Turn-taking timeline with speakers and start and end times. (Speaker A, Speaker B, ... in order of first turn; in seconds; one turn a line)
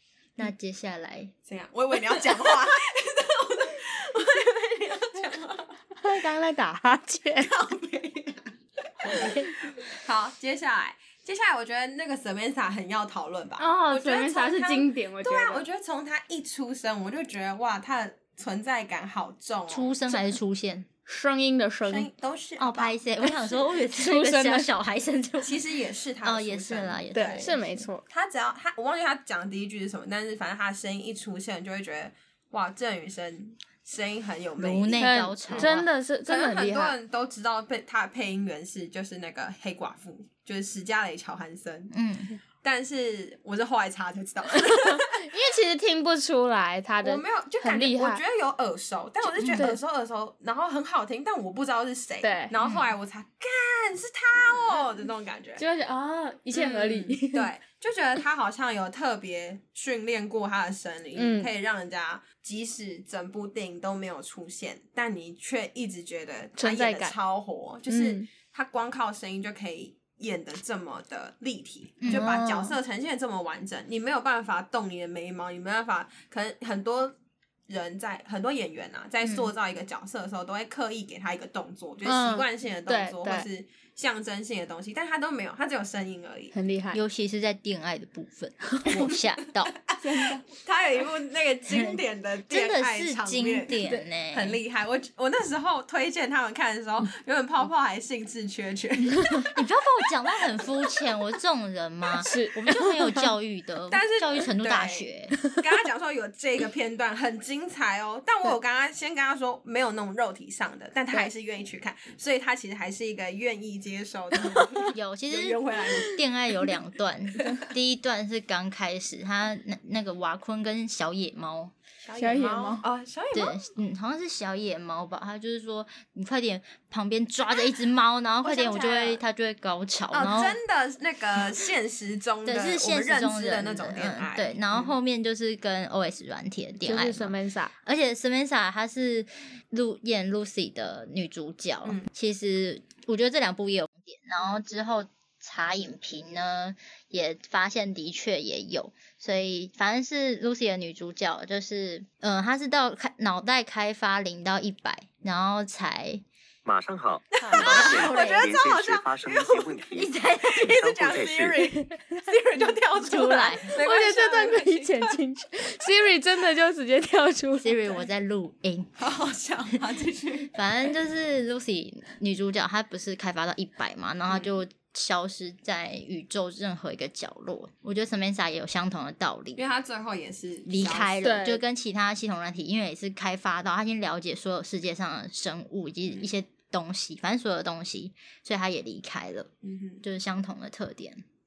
Speaker A: 0.4-1.3
Speaker B: 1.5-5.8
Speaker C: 6.0-7.5
Speaker B: 7.4-20.2
Speaker C: 9.0-9.5
Speaker C: 13.6-15.7
Speaker A: 19.7-20.9
Speaker C: 21.1-22.1
Speaker B: 21.9-23.6
Speaker A: 22.6-25.7
Speaker C: 23.9-24.7
Speaker B: 25.4-27.5
Speaker A: 26.2-27.8
Speaker C: 27.1-28.0
Speaker B: 28.1-41.9
Speaker A: 34.6-35.9
Speaker C: 35.0-37.0
Speaker A: 41.9-42.3
Speaker B: 42.6-45.3
Speaker C: 44.5-48.2
Speaker B: 47.0-55.6
Speaker A: 49.4-49.7
Speaker C: 49.4-49.8
Speaker C: 52.2-52.5
Speaker A: 52.6-52.9
Speaker C: 55.6-57.5
Speaker B: 56.5-77.2
Speaker C: 61.2-61.5
Speaker C: 66.6-67.2
Speaker C: 67.9-68.3
Speaker A: 72.0-72.3
Speaker C: 72.1-72.8
Speaker B: 77.7-86.5
Speaker A: 79.2-79.5
Speaker C: 82.0-83.5
Speaker C: 86.5-87.0
Speaker A: 86.9-89.8
Speaker B: 89.9-99.6
Speaker C: 90.0-90.4
Speaker A: 91.7-94.6
Speaker A: 99.5-105.4
Speaker B: 100.4-100.9
Speaker C: 102.2-103.3
Speaker B: 103.9-116.2
Speaker A: 114.9-121.7
Speaker B: 122.0-123.7
Speaker C: 122.2-122.8
Speaker A: 123.3-130.6
Speaker B: 128.4-129.2
Speaker B: 130.1-134.9
Speaker A: 132.4-156.2
Speaker C: 136.8-137.7
Speaker D: 156.7-161.6
Speaker B: 157.4-165.2
Speaker A: 157.5-158.6
Speaker A: 159.9-160.9
Speaker C: 161.7-162.2
Speaker A: 163.0-163.8
Speaker C: 163.8-168.0
Speaker A: 167.6-169.0
Speaker B: 169.0-170.6
Speaker A: 170.5-179.6
Speaker B: 174.3-174.6
Speaker B: 179.6-181.5
Speaker A: 180.7-189.5
Speaker C: 181.2-181.6
Speaker B: 189.6-190.0
Speaker A: 190.0-191.2